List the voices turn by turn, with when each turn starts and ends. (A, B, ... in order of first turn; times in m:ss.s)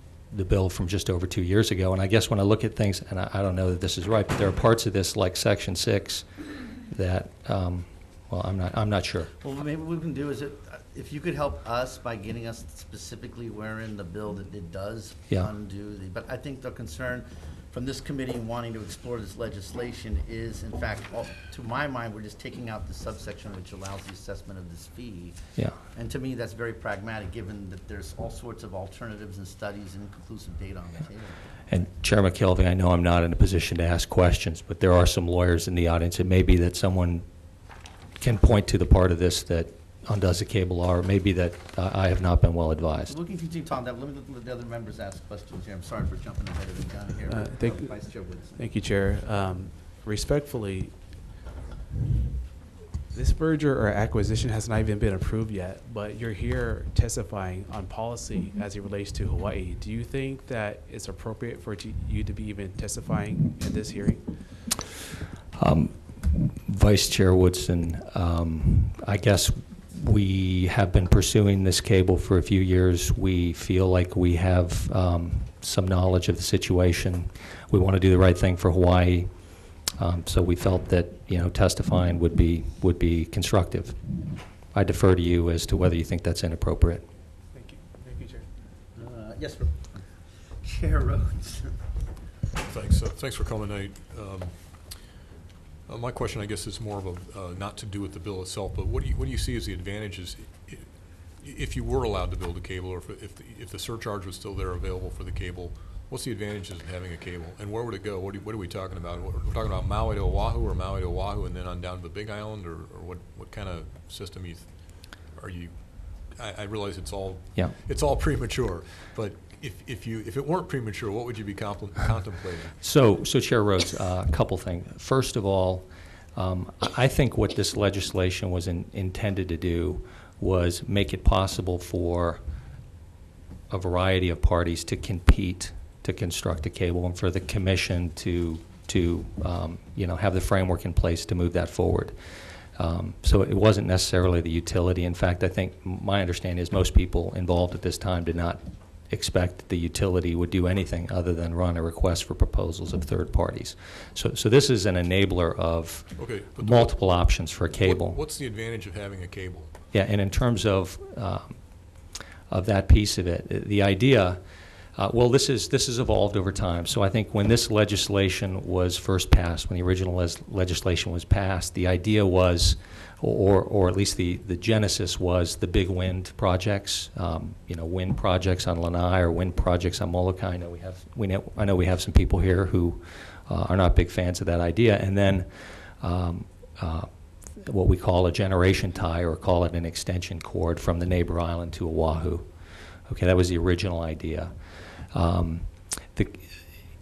0:00.3-0:06.3 A
0:06.9-0:09.3 A
0:09.4-0:31.4 B
0:31.7-0:37.2 A
0:38.2-0:43.1 A
0:43.1-0:48.7 B
0:47.3-0:51.2 C
0:53.1-1:04.6 C
1:05.6-1:19.3 A
1:19.8-1:24.0 A
1:24.7-1:27.0 A
1:27.5-1:28.4 C
1:29.0-1:30.1 B
1:30.6-1:31.7 B
1:32.7-1:35.1 D
1:35.9-2:02.8 D
2:02.8-2:12.4 A
2:13.7-2:22.1 A
2:22.8-2:38.2 A
2:36.2-2:39.7 D
2:39.9-2:41.6 A
2:42.5-2:44.4 A
2:45.0-3:05.5 A
3:06.0-3:12.5 A
3:13.1-3:14.5 A
3:15.1-3:16.5 A